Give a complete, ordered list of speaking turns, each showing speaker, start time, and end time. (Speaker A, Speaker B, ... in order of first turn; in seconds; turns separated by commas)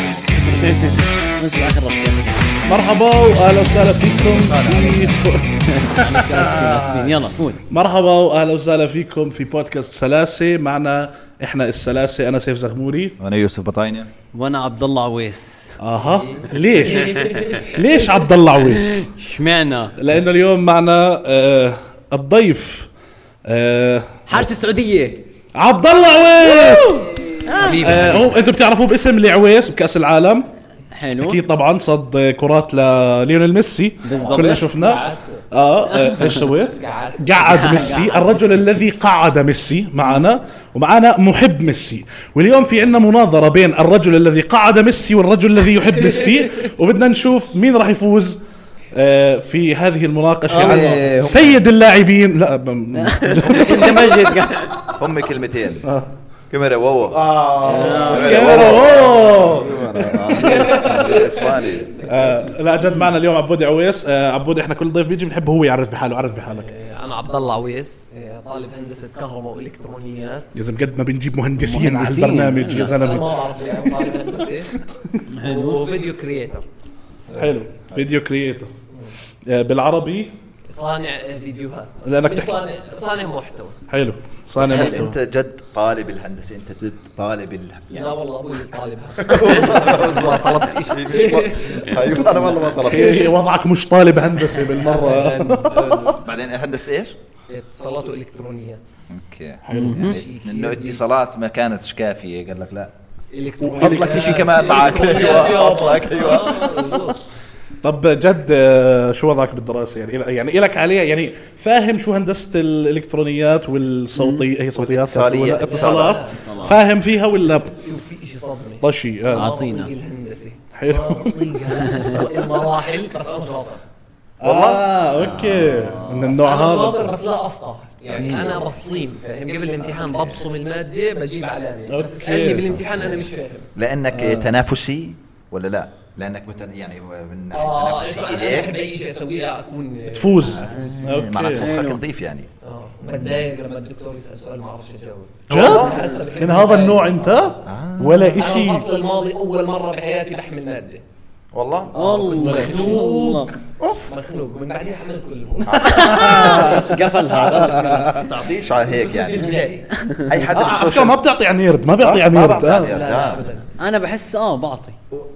Speaker A: 0.3-2.6, Speaker B: 2.7-7.2, Speaker C: 4.5-5.1, Speaker A: 4.6-5.1, Speaker A: 5.7-7.6, Speaker B: 7.7-13.2, Speaker C: 13.2-14.1, Speaker A: 14.3-15.8, Speaker B: 15.8-19.1, Speaker D: 15.9-17.8, Speaker A: 18.8-19.9, Speaker B: 20.0-22.9, Speaker B: 23.4-24.5, Speaker A: 24.3-25.2, Speaker B: 25.5-27.1, Speaker A: 26.4-28.2, Speaker D: 27.6-28.3, Speaker B: 27.6-30.5, Speaker A: 30.9-31.4, Speaker B: 31.2-48.4, Speaker A: 34.0-34.6, Speaker D: 34.1-35.4, Speaker A: 35.9-36.4, Speaker D: 36.7-38.5, Speaker A: 37.4-38.5, Speaker B: 48.9-54.4, Speaker A: 50.5-51.0, Speaker C: 50.6-51.6, Speaker A: 53.0-54.9, Speaker C: 54.9-55.9, Speaker C: 56.5-61.9, Speaker B: 57.1-59.9, Speaker A: 57.6-58.7, Speaker D: 57.7-62.6, Speaker B: 62.1-66.7, Speaker D: 66.5-70.5, Speaker B: 70.5-75.2, Speaker A: 71.6-73.0, Speaker D: 72.9-74.7, Speaker A: 75.3-75.9, Speaker D: 75.4-76.7, Speaker C: 77.3-78.0, Speaker B: 77.3-78.7, Speaker B: 79.5-80.3, Speaker D: 80.7-83.8, Speaker B: 82.0-82.6, Speaker B: 83.9-85.2, Speaker C: 84.5-88.1, Speaker D: 87.9-93.3, Speaker C: 89.2-93.3, Speaker B: 92.8-96.1, Speaker D: 94.5-96.2, Speaker C: 96.2-97.2, Speaker D: 97.5-98.8, Speaker C: 99.1-102.9, Speaker B: 99.6-100.1, Speaker A: 99.7-100.2, Speaker D: 100.0-101.0, Speaker D: 103.3-107.2, Speaker C: 103.6-107.0, Speaker B: 103.7-104.5, Speaker B: 107.8-117.7, Speaker A: 114.1-114.5, Speaker C: 114.7-116.2, Speaker D: 115.7-116.7, Speaker A: 116.3-116.8, Speaker D: 117.4-123.8, Speaker B: 118.8-119.5, Speaker A: 119.3-119.9, Speaker B: 120.7-122.0, Speaker A: 121.8-122.2, Speaker B: 124.4-127.1, Speaker C: 124.4-126.0, Speaker A: 125.2-126.3, Speaker D: 126.2-133.7, Speaker C: 128.1-128.7, Speaker A: 128.1-128.6, Speaker C: 129.8-130.4, Speaker B: 131.9-132.8, Speaker C: 132.9-138.8, Speaker B: 134.1-134.4, Speaker D: 137.5-140.9, Speaker B: 140.1-141.7, Speaker C: 140.5-142.5, Speaker A: 140.7-141.0, Speaker A: 141.6-142.0, Speaker D: 142.6-147.6, Speaker C: 143.0-143.5, Speaker C: 145.5-146.2, Speaker B: 145.5-148.8, Speaker A: 145.9-146.3, Speaker C: 147.6-148.4, Speaker D: 148.3-151.0, Speaker C: 151.5-152.0, Speaker D: 151.9-153.5, Speaker A: 151.9-153.6, Speaker B: 152.4-153.4, Speaker C: 153.8-154.1, Speaker D: 154.1-158.2, Speaker C: 155.6-156.7, Speaker A: 155.8-158.3, Speaker B: 156.1-156.9, Speaker B: 157.5-158.1, Speaker C: 158.1-159.6, Speaker D: 158.8-159.9, Speaker A: 159.9-160.4, Speaker C: 160.2-161.2, Speaker B: 160.5-162.9, Speaker C: 161.9-163.5, Speaker D: 162.8-163.7, Speaker A: 163.8-165.0